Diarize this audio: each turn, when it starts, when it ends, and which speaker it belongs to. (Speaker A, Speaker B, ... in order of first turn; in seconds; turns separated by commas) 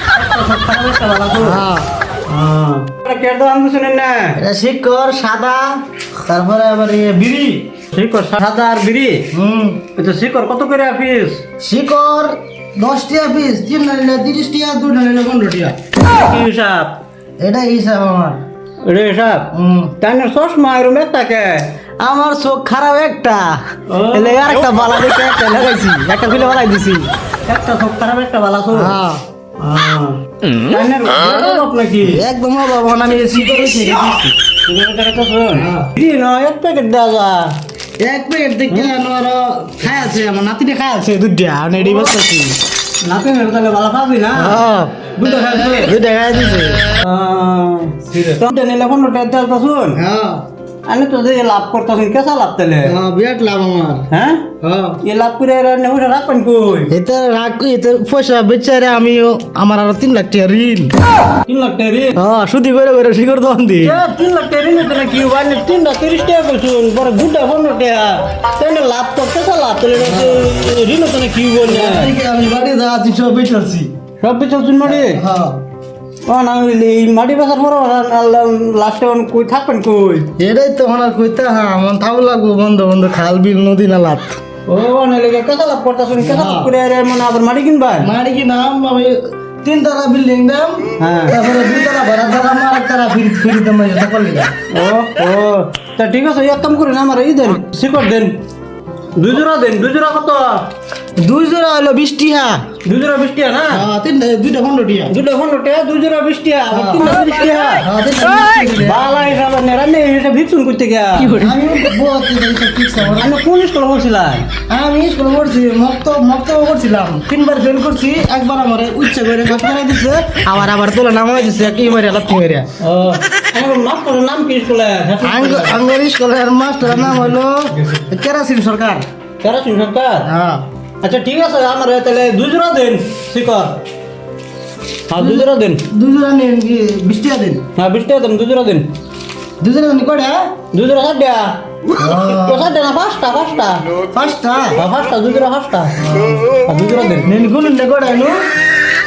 Speaker A: 0.2-1.6, Speaker B: 1.4-1.9, Speaker A: 2.3-4.4, Speaker B: 4.4-5.7, Speaker B: 6.3-7.6, Speaker A: 7.9-9.3, Speaker B: 9.3-9.8, Speaker A: 10.0-11.4, Speaker B: 11.6-15.8, Speaker A: 16.0-17.0, Speaker B: 17.4-18.4, Speaker A: 18.9-19.5, Speaker B: 19.5-19.9, Speaker A: 20.0-21.7, Speaker B: 22.0-23.4, Speaker A: 23.9-28.9, Speaker B: 26.0-26.8, Speaker B: 28.7-29.2, Speaker A: 29.6-32.2, Speaker B: 32.0-34.3, Speaker A: 34.6-37.5, Speaker B: 35.5-35.9, Speaker B: 38.0-42.6, Speaker A: 43.0-44.6, Speaker B: 44.3-46.9, Speaker A: 45.2-45.9, Speaker A: 47.0-50.0, Speaker B: 50.0-50.4, Speaker A: 50.9-52.9, Speaker B: 52.8-54.1, Speaker A: 54.1-56.9, Speaker B: 54.6-55.0, Speaker B: 56.9-60.9, Speaker A: 61.5-62.2, Speaker B: 62.1-64.0, Speaker A: 63.8-72.1, Speaker B: 70.0-70.5, Speaker B: 71.6-73.9, Speaker A: 74.2-75.2, Speaker B: 74.9-75.5, Speaker A: 76.3-80.3, Speaker B: 80.4-84.4, Speaker A: 84.7-88.1, Speaker B: 86.2-86.7, Speaker B: 88.0-94.5, Speaker A: 91.0-91.4, Speaker A: 94.8-98.4, Speaker A: 99.2-100.6, Speaker B: 101.2-102.6, Speaker A: 102.8-103.8, Speaker B: 103.7-105.2, Speaker A: 105.1-107.8, Speaker B: 106.7-107.1, Speaker B: 107.8-109.2, Speaker A: 108.8-111.4, Speaker B: 111.3-113.3, Speaker A: 113.1-114.5, Speaker B: 114.7-122.7, Speaker A: 122.8-125.8, Speaker B: 125.2-129.1, Speaker A: 126.9-128.0, Speaker A: 129.4-130.2, Speaker B: 130.2-130.6, Speaker A: 131.0-133.8, Speaker A: 135.1-135.8, Speaker B: 135.2-137.6, Speaker A: 137.8-138.9, Speaker B: 139.6-140.4, Speaker A: 140.7-141.5, Speaker B: 142.0-142.7, Speaker A: 142.2-143.8, Speaker B: 144.1-144.8, Speaker A: 144.8-145.9, Speaker B: 146.0-146.5, Speaker A: 146.7-147.3, Speaker B: 147.2-148.3